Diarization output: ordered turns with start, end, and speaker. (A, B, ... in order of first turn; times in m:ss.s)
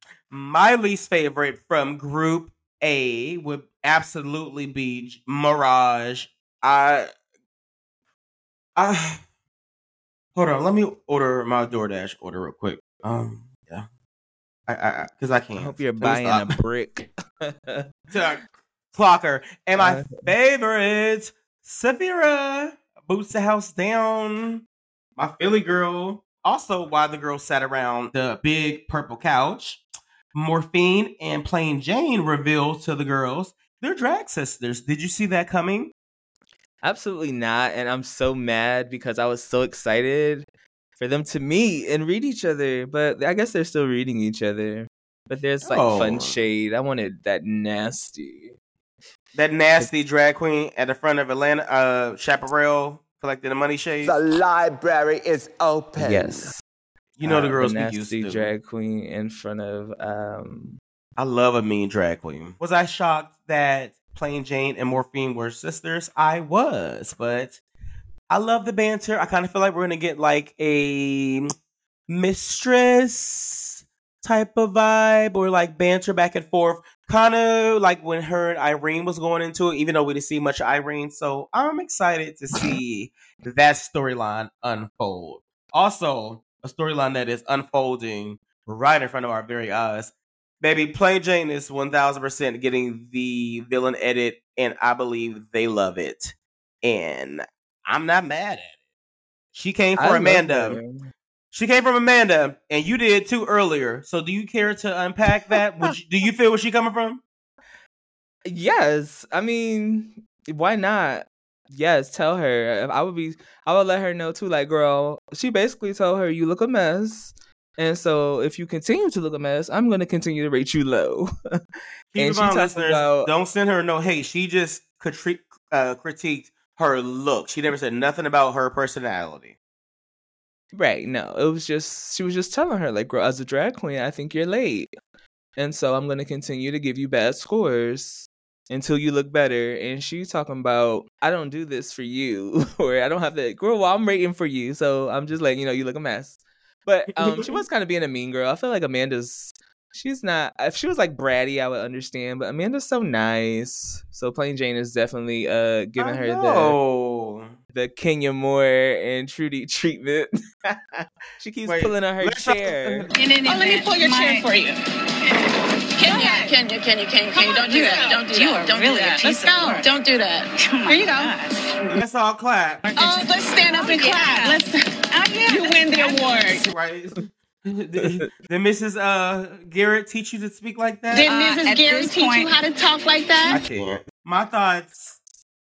0:00.3-0:07.1 A
0:08.8-0:09.2 A
0:10.4-0:13.9 A
0:14.7-0:16.6 A
0:15.6-0:17.9 B
0:18.1-0:24.6 A
0:19.8-0:20.3 B
0:25.2-0:29.8 A
0:30.3-0:35.9 A
0:36.8-0:40.5 B
0:41.0-0:48.5 B
0:45.6-0:46.4 A
0:49.4-0:54.2 A
0:54.0-0:56.5 C
0:56.0-0:56.6 B
0:57.2-0:58.5 A
0:57.2-1:00.8 B
1:01.2-1:07.6 A
1:08.3-1:11.5 A
1:12.1-1:13.7 A
1:14.2-1:38.7 A
1:39.5-1:40.8 A
1:40.0-1:41.1 B
1:41.5-1:47.2 A
1:48.5-2:01.3 B
2:02.2-2:09.6 A
2:02.2-2:03.3 B
2:10.7-2:14.9 B
2:15.6-2:36.8 B
2:27.2-2:27.6 A
2:36.0-2:37.6 A
2:37.7-2:43.1 B
2:41.7-2:43.1 A
2:43.2-2:44.7 D
2:43.2-2:44.6 E
2:46.0-2:46.6 D
2:46.0-2:51.4 E
2:47.3-2:49.9 D
2:50.6-2:52.0 D
2:52.0-2:52.8 A
2:52.8-2:56.6 D
2:53.0-2:56.6 E
2:56.4-3:01.3 A
2:58.0-2:58.2 B
3:01.1-3:03.6 E
3:01.2-3:02.6 D
3:03.5-3:05.2 A